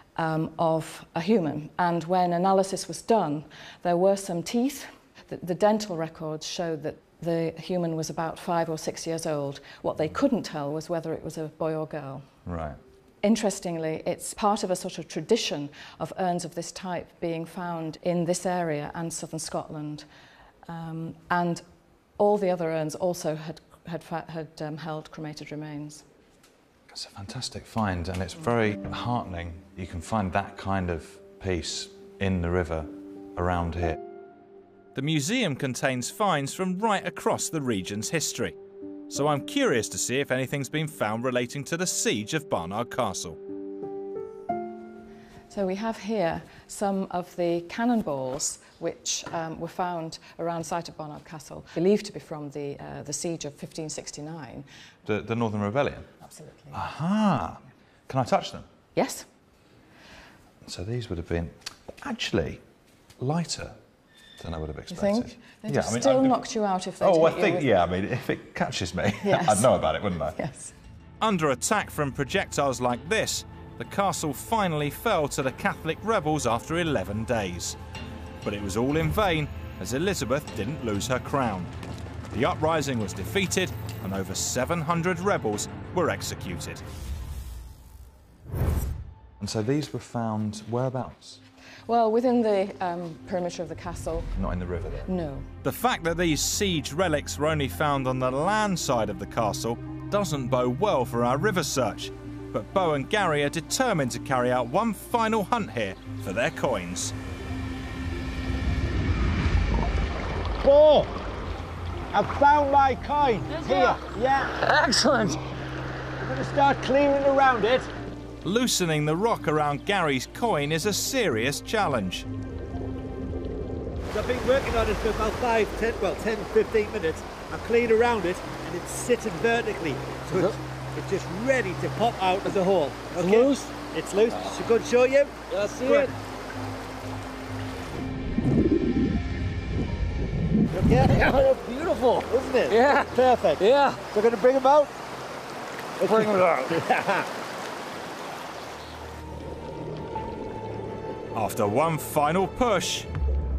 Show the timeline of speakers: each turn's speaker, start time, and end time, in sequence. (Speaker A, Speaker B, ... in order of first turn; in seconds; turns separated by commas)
Speaker A: 0.2-12.3, Speaker B: 12.5-12.8, Speaker A: 13.2-20.1, Speaker A: 20.7-21.6, Speaker A: 22.2-26.1, Speaker B: 26.9-34.0, Speaker C: 35.0-38.5, Speaker C: 39.1-43.4, Speaker A: 45.5-54.7, Speaker B: 55.1-56.1, Speaker A: 56.2-56.8, Speaker B: 56.7-58.7, Speaker A: 59.0-59.3, Speaker B: 60.6-62.6, Speaker B: 63.2-63.8, Speaker B: 64.4-66.4, Speaker A: 64.9-67.7, Speaker B: 67.0-70.4, Speaker A: 69.2-69.8, Speaker A: 70.3-70.7, Speaker C: 71.2-77.8, Speaker C: 78.4-81.7, Speaker C: 82.3-86.8, Speaker B: 89.4-91.4, Speaker A: 91.9-94.4, Speaker B: 94.4-95.1, Speaker A: 95.1-95.5, Speaker C: 95.6-107.1, Speaker D: 110.6-111.1, Speaker D: 112.1-114.6, Speaker E: 113.5-114.0, Speaker E: 114.6-115.4, Speaker D: 116.2-117.9, Speaker C: 118.5-122.3, Speaker D: 124.1-136.1, Speaker E: 133.2-133.7, Speaker E: 134.3-134.6, Speaker E: 135.5-136.1, Speaker D: 140.7-141.3, Speaker E: 140.9-144.0, Speaker D: 142.3-144.9, Speaker D: 146.0-147.3, Speaker E: 146.0-146.8, Speaker C: 151.3-153.1